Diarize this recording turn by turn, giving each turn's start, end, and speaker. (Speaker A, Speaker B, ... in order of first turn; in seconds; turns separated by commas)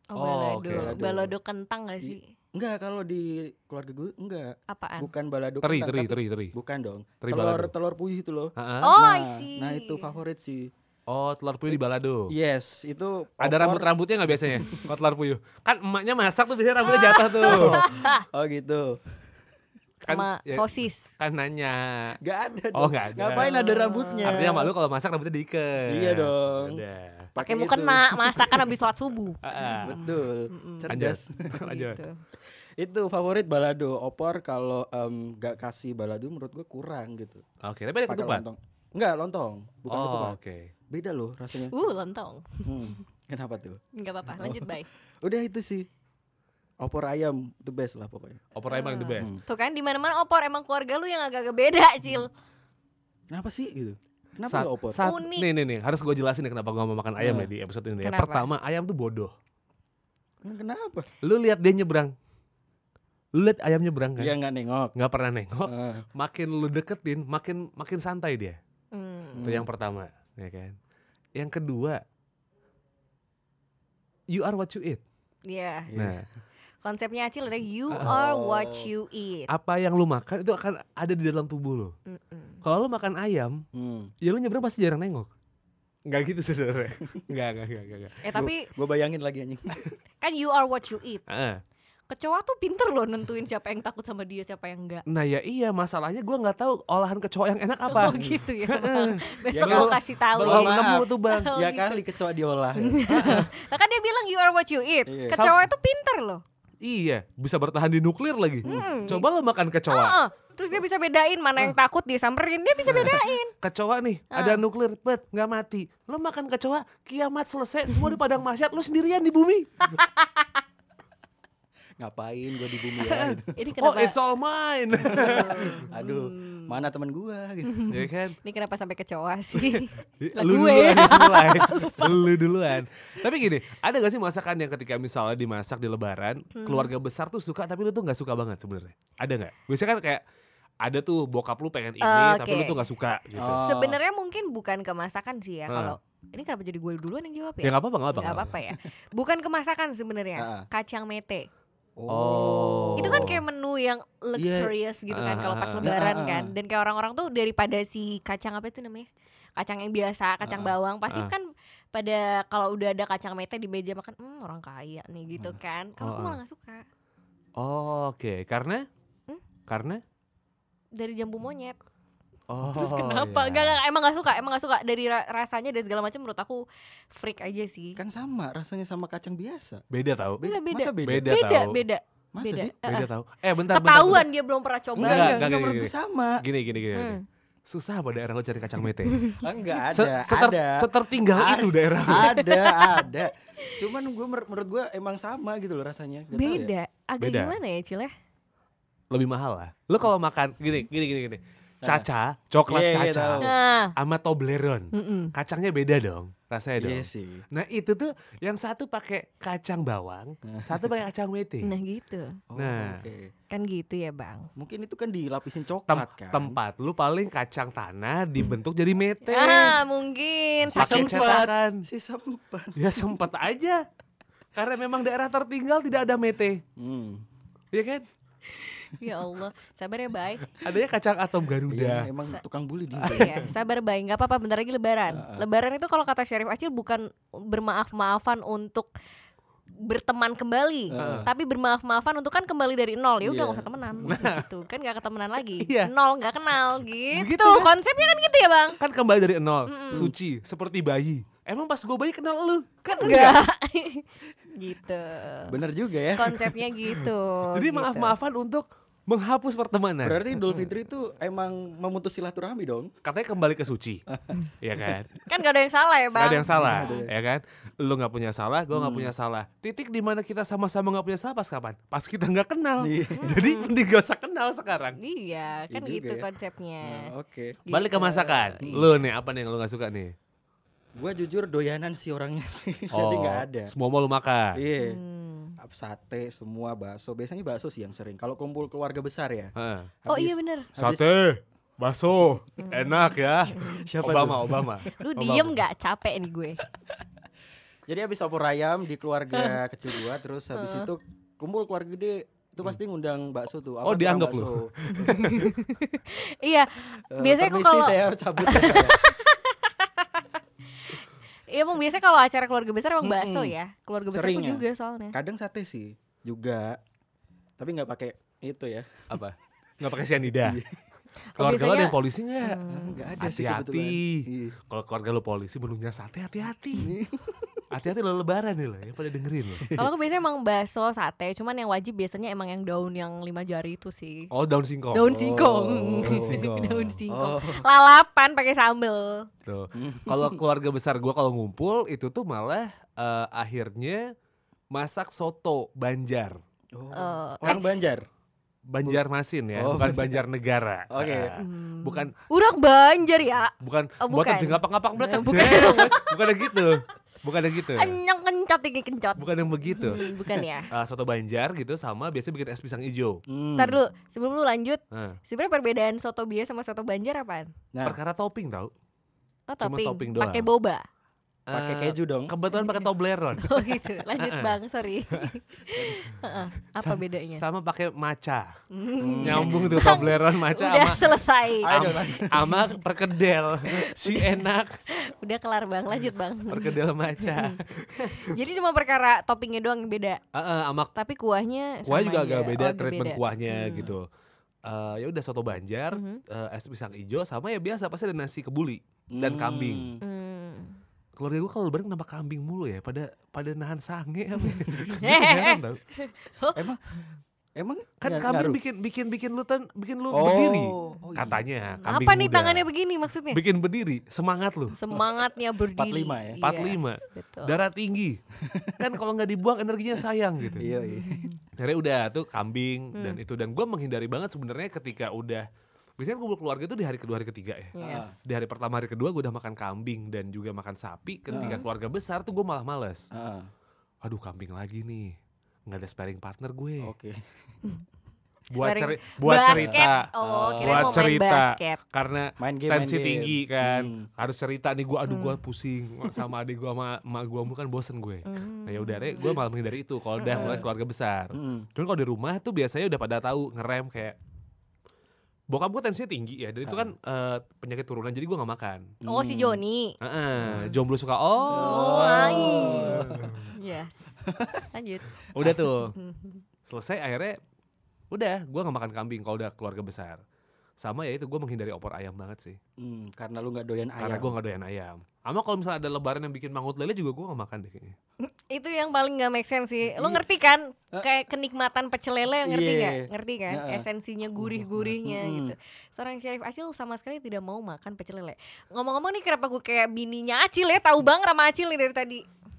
Speaker A: 0.1-2.3, Speaker B: 0.2-1.0, Speaker C: 0.7-1.3, Speaker C: 2.0-10.7, Speaker A: 4.7-5.1, Speaker B: 5.6-6.5, Speaker B: 7.2-7.7, Speaker B: 8.6-8.9, Speaker A: 8.8-10.1, Speaker B: 11.1-12.3, Speaker C: 11.7-13.9, Speaker B: 13.4-17.8, Speaker C: 14.5-14.8, Speaker A: 16.9-18.2, Speaker C: 17.4-19.0, Speaker B: 20.1-22.2, Speaker A: 20.1-21.1, Speaker C: 22.2-24.7, Speaker B: 22.7-23.5, Speaker A: 23.4-24.4, Speaker B: 24.2-27.3, Speaker C: 25.9-26.8, Speaker C: 27.4-28.8, Speaker A: 27.4-31.0, Speaker B: 29.4-30.0, Speaker C: 29.8-31.7, Speaker B: 30.9-32.0, Speaker A: 31.6-32.2, Speaker C: 32.8-37.4, Speaker B: 37.6-38.5, Speaker C: 38.1-40.4, Speaker B: 39.9-40.7, Speaker C: 40.9-41.7, Speaker A: 41.5-43.0, Speaker C: 42.7-43.8, Speaker A: 44.0-44.9, Speaker C: 44.4-45.9, Speaker C: 46.8-48.4, Speaker B: 48.5-49.3, Speaker A: 48.6-52.3, Speaker C: 53.3-55.0, Speaker B: 54.5-59.3, Speaker A: 55.0-55.5, Speaker C: 57.2-57.5, Speaker A: 58.0-58.5, Speaker C: 60.4-61.1, Speaker B: 61.2-62.1, Speaker B: 63.4-64.3, Speaker C: 64.2-64.9, Speaker B: 65.0-68.6, Speaker C: 65.6-66.1, Speaker A: 68.9-69.5, Speaker C: 69.3-69.7, Speaker B: 69.4-70.8, Speaker B: 71.3-72.0, Speaker B: 74.3-75.0, Speaker A: 75.5-75.9, Speaker C: 75.9-76.2, Speaker B: 75.9-76.3, Speaker A: 76.8-79.5, Speaker B: 77.9-78.2, Speaker C: 77.9-78.9, Speaker B: 79.5-81.9, Speaker A: 82.1-82.6, Speaker B: 82.6-83.6, Speaker C: 83.7-84.1, Speaker B: 84.2-85.3, Speaker B: 86.1-88.2, Speaker A: 88.2-88.7, Speaker C: 88.3-90.0, Speaker A: 90.2-91.2, Speaker B: 91.3-91.6, Speaker A: 92.1-95.0, Speaker B: 95.1-101.5, Speaker A: 97.9-102.1, Speaker C: 98.0-98.3, Speaker C: 99.5-103.5, Speaker A: 102.8-106.4, Speaker C: 105.1-105.4, Speaker B: 105.3-105.6, Speaker B: 106.8-110.2, Speaker C: 108.6-109.0, Speaker A: 108.7-109.3, Speaker A: 109.9-113.5, Speaker B: 112.8-120.1, Speaker A: 114.3-114.6, Speaker C: 122.0-123.5, Speaker B: 122.9-125.9, Speaker A: 123.6-124.2, Speaker C: 125.0-127.9, Speaker A: 125.1-126.9, Speaker A: 127.7-132.3, Speaker B: 127.9-128.3, Speaker B: 129.5-140.2, Speaker A: 136.6-136.9, Speaker B: 140.8-143.6, Speaker A: 142.0-142.8, Speaker C: 143.4-144.0, Speaker A: 143.6-151.5, Speaker B: 145.7-146.0, Speaker B: 147.6-148.5, Speaker C: 150.4-150.7, Speaker C: 152.0-153.3, Speaker B: 152.1-153.4, Speaker A: 153.0-166.8, Speaker C: 154.4-154.8, Speaker B: 155.1-155.9, Speaker C: 155.8-156.5, Speaker C: 160.4-160.8, Speaker B: 166.0-166.4, Speaker B: 167.6-168.8, Speaker B: 169.7-170.0, Speaker A: 170.9-171.8, Speaker B: 172.5-173.8, Speaker A: 172.6-178.0, Speaker C: 178.0-179.8, Speaker B: 179.9-180.5, Speaker C: 180.4-181.3, Speaker A: 180.4-183.1, Speaker B: 181.0-181.8, Speaker C: 182.3-182.8, Speaker B: 182.8-184.3, Speaker A: 183.7-185.5, Speaker B: 185.0-189.3, Speaker C: 185.0-186.4, Speaker A: 186.9-187.2, Speaker A: 189.1-189.4, Speaker C: 189.4-196.7, Speaker B: 189.9-192.4, Speaker A: 192.1-193.1, Speaker A: 196.3-198.1, Speaker B: 197.2-197.6, Speaker B: 199.1-211.7, Speaker C: 202.7-203.5, Speaker A: 203.4-203.9, Speaker A: 204.9-205.3, Speaker C: 206.8-207.4, Speaker C: 210.5-210.9, Speaker A: 211.6-212.4, Speaker C: 212.5-213.3, Speaker B: 212.6-213.0, Speaker A: 213.5-214.5, Speaker C: 214.6-216.6, Speaker B: 215.9-219.7, Speaker A: 219.3-221.5, Speaker C: 219.4-219.8, Speaker C: 220.7-222.8, Speaker B: 220.8-221.8, Speaker B: 222.8-223.8, Speaker B: 224.6-226.6, Speaker C: 226.8-227.2, Speaker B: 227.7-228.1, Speaker A: 228.5-230.6, Speaker B: 230.5-232.1, Speaker C: 231.7-233.4, Speaker B: 233.0-233.4, Speaker A: 233.0-238.9, Speaker C: 235.1-235.4, Speaker A: 239.8-248.8, Speaker C: 240.9-241.3, Speaker B: 241.0-241.3, Speaker C: 243.2-244.3, Speaker B: 244.1-244.5, Speaker B: 245.6-245.9, Speaker B: 247.1-247.7, Speaker B: 248.8-253.4, Speaker A: 249.7-250.1, Speaker C: 249.9-250.2, Speaker A: 252.9-255.6, Speaker C: 255.5-256.4, Speaker A: 256.1-258.2, Speaker B: 256.9-260.7, Speaker C: 260.0-262.9, Speaker B: 263.0-264.0, Speaker C: 264.1-264.4, Speaker B: 264.6-265.1, Speaker A: 265.3-267.1, Speaker B: 266.2-275.0, Speaker C: 266.5-267.1, Speaker C: 268.7-269.1, Speaker C: 272.8-273.4, Speaker A: 273.2-273.7, Speaker A: 275.0-277.1, Speaker C: 275.7-276.3, Speaker C: 276.8-278.0, Speaker A: 277.7-278.8, Speaker B: 277.7-280.1, Speaker C: 278.6-278.9, Speaker C: 281.0-283.7, Speaker B: 282.9-284.6, Speaker C: 284.6-285.0, Speaker A: 284.8-285.6, Speaker C: 285.6-291.1, Speaker B: 289.6-289.9, Speaker A: 290.1-290.7, Speaker B: 290.8-295.6, Speaker A: 292.6-293.9, Speaker C: 293.6-294.8, Speaker A: 295.0-296.6, Speaker C: 297.9-305.2, Speaker A: 299.3-300.0, Speaker A: 300.6-300.9, Speaker B: 303.8-305.6, Speaker A: 304.9-315.2, Speaker C: 307.1-309.0, Speaker C: 313.0-313.6, Speaker C: 314.1-316.8, Speaker C: 317.6-319.1, Speaker B: 319.1-320.6, Speaker C: 320.4-320.8, Speaker A: 321.3-323.1, Speaker B: 321.4-322.6, Speaker C: 322.6-324.6, Speaker B: 323.2-327.0, Speaker C: 326.8-327.6, Speaker B: 327.7-329.8, Speaker A: 329.7-334.3, Speaker B: 334.3-335.1, Speaker A: 334.9-339.3, Speaker C: 335.0-337.7, Speaker B: 336.1-336.4, Speaker B: 339.5-344.1, Speaker C: 339.8-340.4, Speaker B: 344.7-346.4, Speaker C: 346.8-348.0, Speaker A: 346.9-347.7, Speaker B: 348.7-352.1, Speaker C: 349.5-350.2, Speaker C: 350.9-351.4, Speaker A: 351.4-356.3, Speaker B: 353.6-358.0, Speaker C: 355.0-355.5, Speaker A: 357.7-360.7, Speaker B: 359.2-360.0, Speaker B: 360.7-363.2, Speaker C: 363.3-363.8, Speaker A: 363.6-367.5, Speaker B: 364.9-365.2, Speaker C: 367.7-368.0, Speaker B: 367.8-368.7, Speaker A: 369.5-370.8, Speaker B: 369.6-370.5, Speaker B: 371.5-374.6, Speaker C: 371.5-372.3, Speaker A: 373.4-377.4, Speaker B: 376.8-378.5, Speaker A: 378.7-381.9, Speaker C: 379.0-380.2, Speaker B: 379.2-384.7, Speaker C: 381.6-382.7, Speaker A: 383.7-384.4, Speaker A: 385.0-390.2, Speaker B: 386.5-388.4, Speaker B: 390.3-390.9, Speaker A: 390.9-393.9, Speaker B: 391.9-394.1, Speaker B: 394.7-400.0, Speaker A: 395.9-396.2, Speaker C: 399.1-400.0, Speaker A: 400.0-400.8, Speaker B: 401.2-405.8, Speaker A: 404.5-407.1, Speaker C: 407.6-408.6, Speaker B: 408.0-412.7, Speaker C: 410.1-411.4, Speaker A: 411.8-413.4, Speaker B: 413.3-414.8, Speaker A: 414.7-417.6, Speaker C: 415.8-416.5, Speaker B: 416.4-418.2, Speaker C: 418.4-418.9, Speaker B: 418.8-420.7, Speaker C: 420.6-421.3, Speaker A: 420.8-421.4, Speaker B: 421.6-425.5, Speaker A: 422.9-423.2, Speaker B: 426.0-433.1, Speaker A: 427.8-428.2, Speaker C: 427.8-428.2, Speaker A: 431.3-431.6, Speaker C: 431.3-431.6, Speaker C: 433.1-433.5, Speaker B: 434.0-435.2, Speaker B: 435.7-436.9, Speaker C: 436.8-437.2, Speaker B: 438.5-454.2, Speaker A: 438.5-441.8, Speaker C: 439.5-441.1, Speaker C: 442.4-444.1, Speaker A: 445.1-445.4, Speaker A: 448.3-449.4, Speaker A: 450.2-450.6, Speaker C: 450.3-450.7, Speaker C: 451.3-451.7, Speaker B: 455.5-458.9, Speaker C: 456.7-456.9, Speaker C: 459.0-459.6, Speaker A: 459.1-459.9, Speaker B: 460.0-463.4, Speaker A: 461.5-464.1, Speaker C: 461.5-463.4, Speaker C: 464.3-464.6, Speaker A: 464.7-465.2, Speaker B: 465.3-465.9, Speaker A: 466.0-466.4, Speaker B: 466.7-467.4, Speaker B: 468.1-470.2, Speaker B: 470.8-472.6, Speaker C: 472.8-474.4, Speaker B: 474.0-478.0, Speaker A: 478.3-492.2, Speaker C: 479.9-480.2, Speaker C: 482.4-483.9, Speaker C: 484.4-485.6